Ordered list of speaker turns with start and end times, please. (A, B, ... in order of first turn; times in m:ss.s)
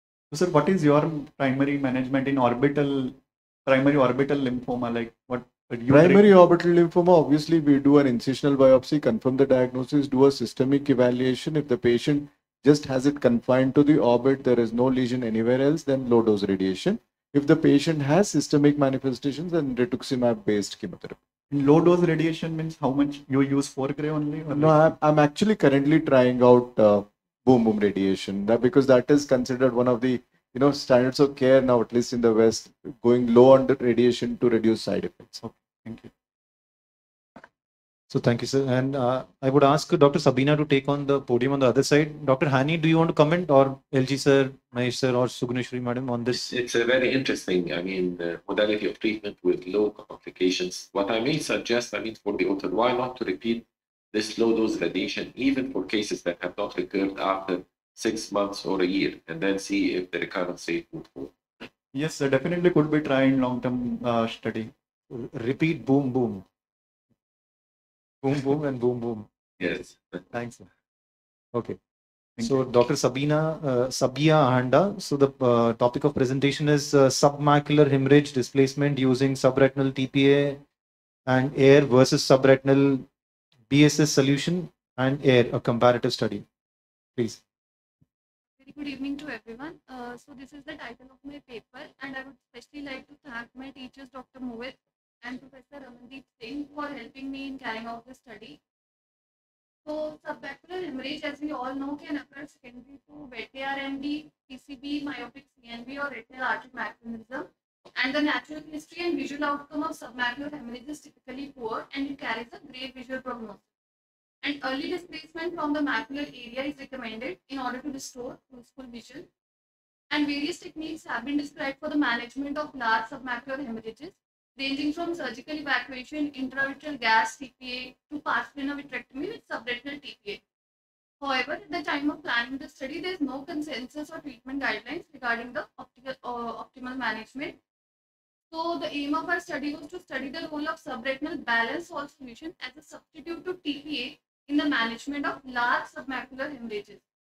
0:00.3-0:06.3 A
0:05.9-0:21.2 B
0:21.5-0:25.0 A
0:24.5-0:35.3 B
0:35.4-0:36.1 A
0:38.1-0:46.4 C
0:46.3-1:01.3 D
1:01.9-1:04.7 A
1:05.1-1:06.4 C
1:08.2-1:09.3 C
1:09.6-1:10.3 D
1:10.3-1:10.7 C
1:12.4-1:12.6 A
1:12.4-1:20.6 C
1:21.3-1:23.0 C
1:23.7-1:26.4 C
1:28.6-1:38.6 E
1:39.8-1:53.6 E
1:54.4-1:59.3 E
2:00.1-2:10.4 E
2:11.2-2:17.6 E
2:18.5-2:27.0 E